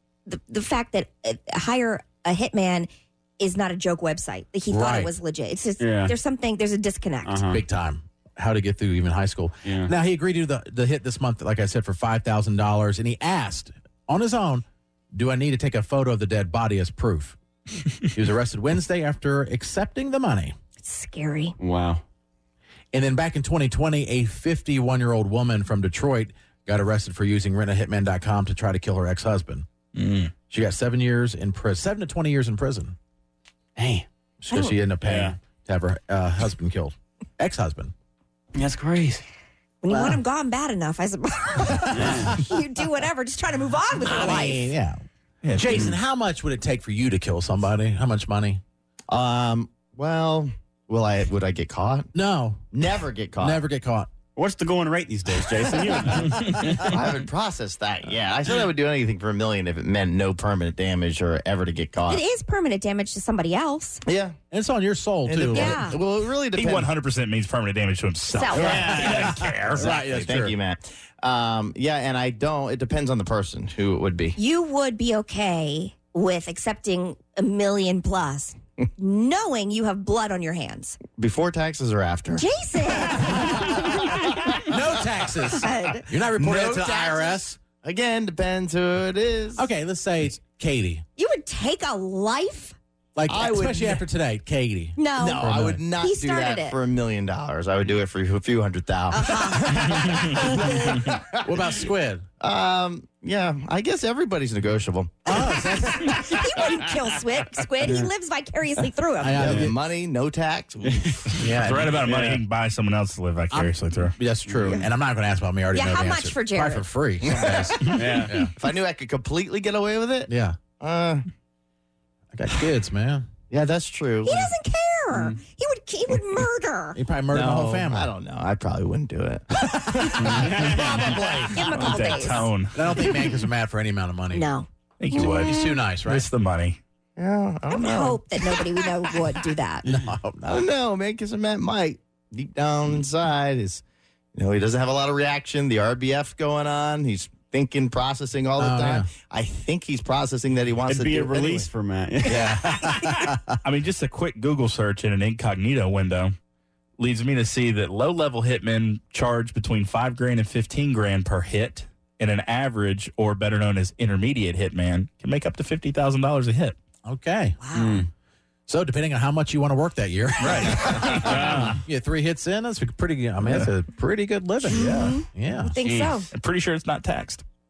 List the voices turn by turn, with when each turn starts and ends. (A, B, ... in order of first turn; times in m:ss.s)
0:00.2-0:07.5 A
0:04.7-0:05.1 B
0:05.8-0:06.1 C
0:07.2-0:07.6 C
0:07.5-0:17.4 B
0:09.6-0:09.9 C
0:18.1-0:20.5 B
0:20.8-0:21.5 A
0:21.6-0:22.0 C
0:22.9-0:29.6 B
0:30.0-0:30.3 D
0:30.5-0:32.9 B
0:33.8-0:34.0 C
0:34.4-0:37.9 B
0:35.0-0:35.4 C
0:38.5-0:39.2 C
0:39.8-0:44.7 A
0:39.9-0:40.2 B
0:41.7-0:42.4 B
0:41.9-0:42.4 C
0:44.0-0:48.6 B
0:45.4-0:45.9 D
0:49.1-0:52.1 E
0:52.1-0:52.8 B
0:52.7-0:53.6 E
0:53.4-0:54.1 B
0:54.4-0:57.0 C
0:56.7-1:02.2 E
1:02.1-1:04.0 A
1:04.0-1:04.4 E
1:04.5-1:05.9 B
1:05.2-1:06.9 E
1:05.5-1:06.0 A
1:06.5-1:09.9 D
1:08.3-1:09.1 A
1:08.5-1:14.4 E
1:08.9-1:10.6 B
1:14.4-1:21.0 A
1:21.1-1:22.4 E
1:22.3-1:24.4 A
1:23.5-1:23.8 B
1:24.5-1:27.6 B
1:25.5-1:26.1 A
1:26.2-1:29.7 E
1:29.6-1:31.0 B
1:31.2-1:32.7 A
1:33.2-1:35.8 B
1:33.3-1:34.0 E
1:35.0-1:36.8 A
1:35.2-1:41.8 E
1:39.1-1:41.2 A
1:41.4-1:42.2 B
1:42.4-1:45.8 E
1:45.2-1:46.2 B
1:45.4-1:49.6 A
1:49.2-1:49.7 B
1:49.3-1:51.2 E
1:49.4-1:49.7 C
1:50.8-1:52.4 C
1:51.4-1:52.0 B
1:51.6-1:54.2 D
1:53.5-1:58.5 B
1:54.4-1:54.8 C
1:55.7-1:56.9 A
1:57.2-2:01.2 E
1:58.0-1:58.3 C
2:00.3-2:00.6 B
2:02.3-2:03.2 B
2:03.5-2:04.5 E
2:04.2-2:07.0 A
2:06.9-2:08.1 B
2:07.3-2:12.1 E
2:09.6-2:10.8 B
2:10.2-2:12.8 D
2:10.4-2:11.4 C
2:11.5-2:13.0 A
2:12.7-2:14.4 B
2:14.3-2:14.7 A
2:15.0-2:16.8 D
2:15.2-2:16.3 B
2:17.2-2:18.2 E
2:17.7-2:19.9 A
2:19.8-2:20.6 B
2:20.4-2:23.8 E
2:24.3-2:31.7 E
2:28.6-2:29.1 B
2:30.8-2:33.1 C
2:32.2-2:33.6 B
2:33.6-2:36.3 D
2:37.0-2:46.8 D
2:47.0-2:47.6 B
2:47.6-2:48.0 A
2:47.7-2:48.1 C
2:48.7-2:55.7 B
2:50.4-2:51.8 D
2:51.2-2:51.7 C
2:54.6-2:56.3 A
2:55.8-2:56.2 C
2:56.3-2:57.4 D